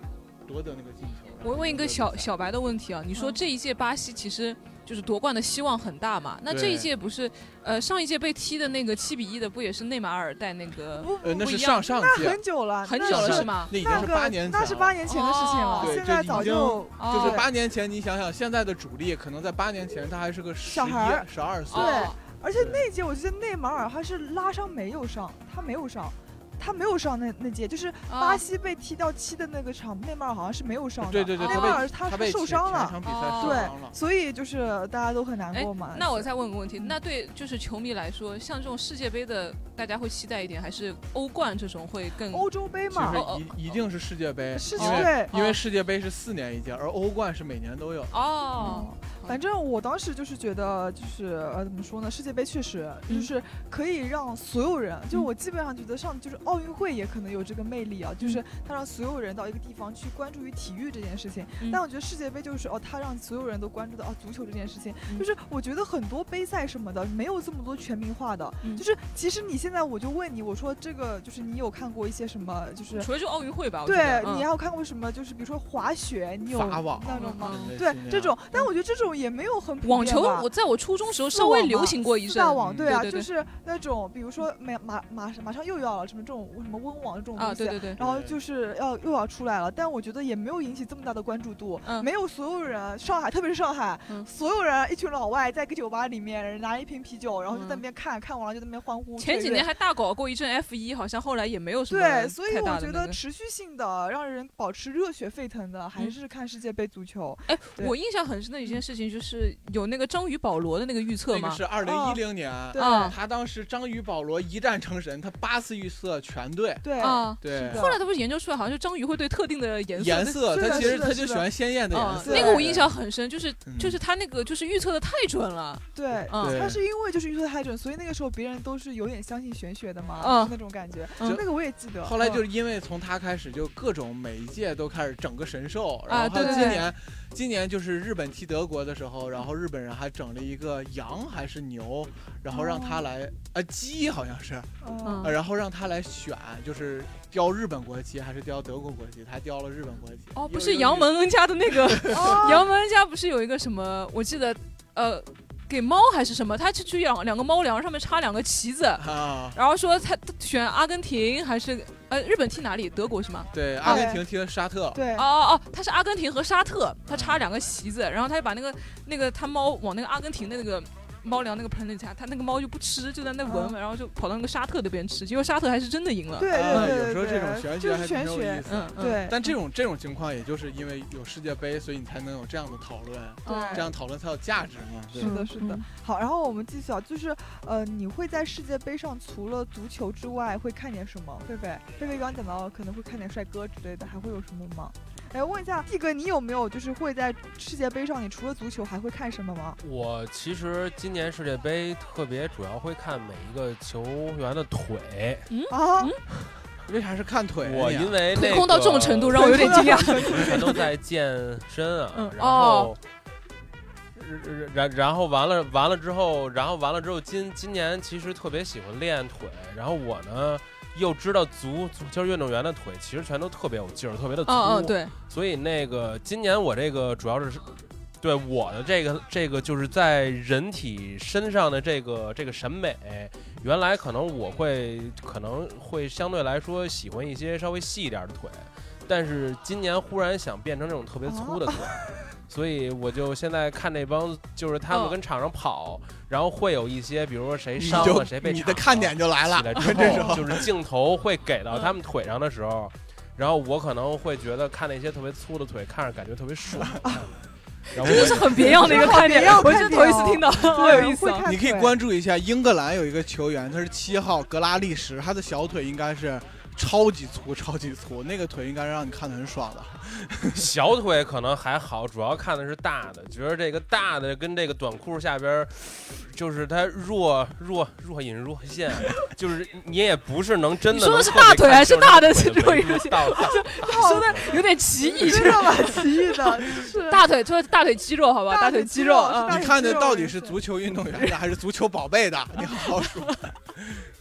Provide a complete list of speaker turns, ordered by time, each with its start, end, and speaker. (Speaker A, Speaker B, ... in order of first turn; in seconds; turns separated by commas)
Speaker A: 0.4-2.3, Speaker B: 1.4-11.9, Speaker A: 6.5-6.9, Speaker C: 10.9-17.5, Speaker A: 11.2-12.4, Speaker B: 12.8-14.1, Speaker A: 13.0-15.0, Speaker B: 15.0-17.5, Speaker A: 15.8-22.9, Speaker C: 20.7-37.0, Speaker B: 21.7-22.2, Speaker B: 28.1-28.4, Speaker A: 31.0-34.0, Speaker B: 31.4-31.9, Speaker B: 33.0-33.7, Speaker B: 35.5-42.5, Speaker C: 42.3-43.2, Speaker A: 42.9-48.8, Speaker B: 43.0-43.5, Speaker C: 44.5-45.3, Speaker B: 44.7-45.6, Speaker B: 48.1-49.4, Speaker C: 48.6-73.1, Speaker B: 72.9-74.5, Speaker C: 73.8-80.5, Speaker A: 76.5-78.3, Speaker B: 77.1-77.7, Speaker B: 79.8-83.3, Speaker C: 81.2-99.7, Speaker A: 82.6-83.0, Speaker B: 87.4-88.0, Speaker A: 88.0-88.4, Speaker B: 97.5-97.8, Speaker B: 99.2-103.2, Speaker C: 101.9-107.9, Speaker B: 107.5-111.6, Speaker A: 111.3-118.0, Speaker C: 111.8-113.1, Speaker B: 112.7-113.2, Speaker C: 116.8-118.0, Speaker B: 117.0-121.2, Speaker A: 120.0-122.9, Speaker C: 120.5-121.5, Speaker B: 121.9-126.6, Speaker C: 122.1-122.8, Speaker A: 123.7-124.0, Speaker C: 125.9-132.4, Speaker A: 126.4-126.8, Speaker B: 130.2-130.5, Speaker A: 132.0-151.1, Speaker B: 136.1-136.9, Speaker C: 136.3-136.9, Speaker C: 142.5-143.0, Speaker C: 144.8-145.3, Speaker B: 145.0-145.3, Speaker B: 150.3-164.1, Speaker A: 151.7-152.4, Speaker C: 152.1-152.7, Speaker A: 159.0-159.6, Speaker A: 163.5-165.0, Speaker C: 163.8-164.2, Speaker C: 164.9-165.2, Speaker B: 165.1-177.0, Speaker A: 167.1-167.4, Speaker C: 173.4-173.8, Speaker C: 176.4-179.4, Speaker A: 176.5-185.3, Speaker B: 178.7-179.3, Speaker B: 183.4-183.9, Speaker C: 183.4-183.9, Speaker C: 185.1-199.8, Speaker B: 185.2-185.8, Speaker D: 199.8-205.5, Speaker B: 205.5-206.2, Speaker C: 205.7-206.1, Speaker A: 206.9-208.3, Speaker D: 207.6-213.0, Speaker B: 208.3-210.8, Speaker C: 209.3-210.8, Speaker B: 212.1-212.9, Speaker D: 214.2-257.3, Speaker B: 224.4-225.1, Speaker C: 241.2-242.1, Speaker B: 244.9-245.2, Speaker A: 247.8-250.7, Speaker C: 249.9-250.4, Speaker D: 257.9-259.3, Speaker B: 258.0-261.5, Speaker A: 258.0-259.1, Speaker C: 258.6-262.0, Speaker A: 261.4-270.6, Speaker D: 270.5-284.6, Speaker B: 280.9-289.6, Speaker C: 283.4-284.6, Speaker C: 285.1-287.2, Speaker C: 288.5-290.6, Speaker A: 289.4-294.0